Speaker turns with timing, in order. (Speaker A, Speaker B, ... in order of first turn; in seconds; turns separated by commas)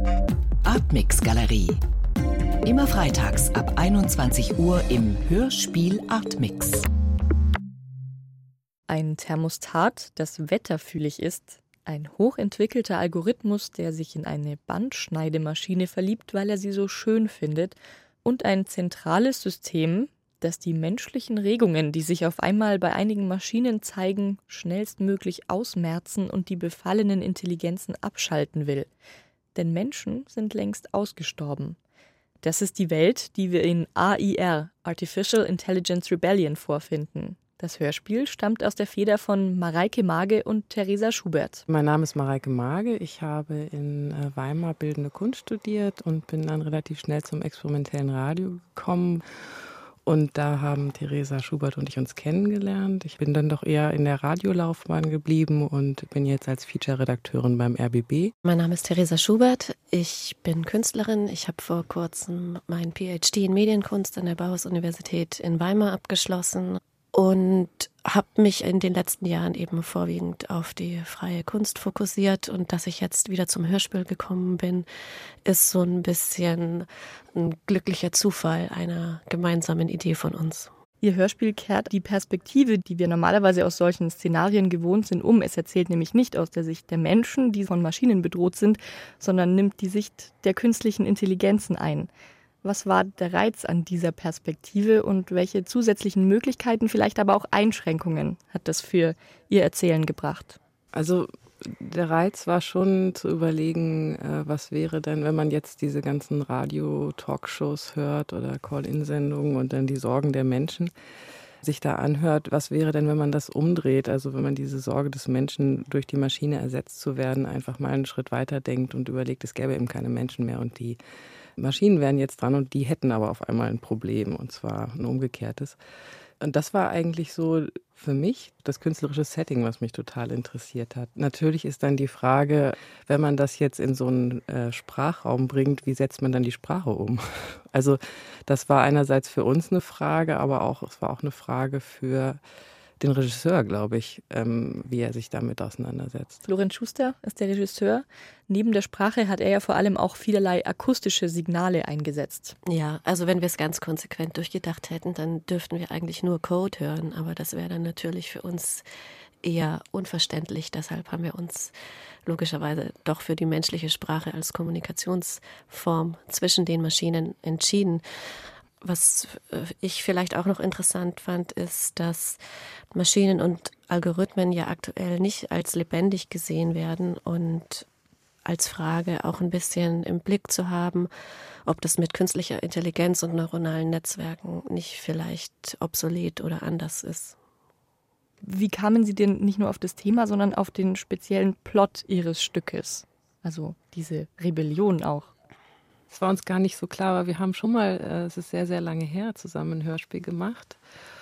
Speaker A: 0.6-1.8, Speaker A: 2.6-6.9, Speaker B: 8.9-28.9, Speaker B: 29.6-31.8, Speaker B: 32.4-41.6, Speaker C: 41.7-49.2, Speaker C: 50.1-58.3, Speaker D: 58.4-74.9, Speaker D: 75.5-80.7, Speaker B: 81.0-92.1, Speaker B: 92.6-100.6, Speaker C: 100.9-110.9, Speaker C: 111.6-121.0, Speaker C: 121.6-125.8, Speaker C: 126.4-142.4, Speaker C: 143.0-146.4, Speaker B: 146.4-152.6, Speaker D: 152.7-158.8, Speaker D: 159.4-161.7, Speaker D: 162.3-168.0, Speaker D: 168.8-172.4, Speaker D: 172.9-177.9, Speaker D: 178.5-181.1, Speaker D: 181.7-187.4, Speaker B: 188.4-195.3, Speaker C: 196.1-200.8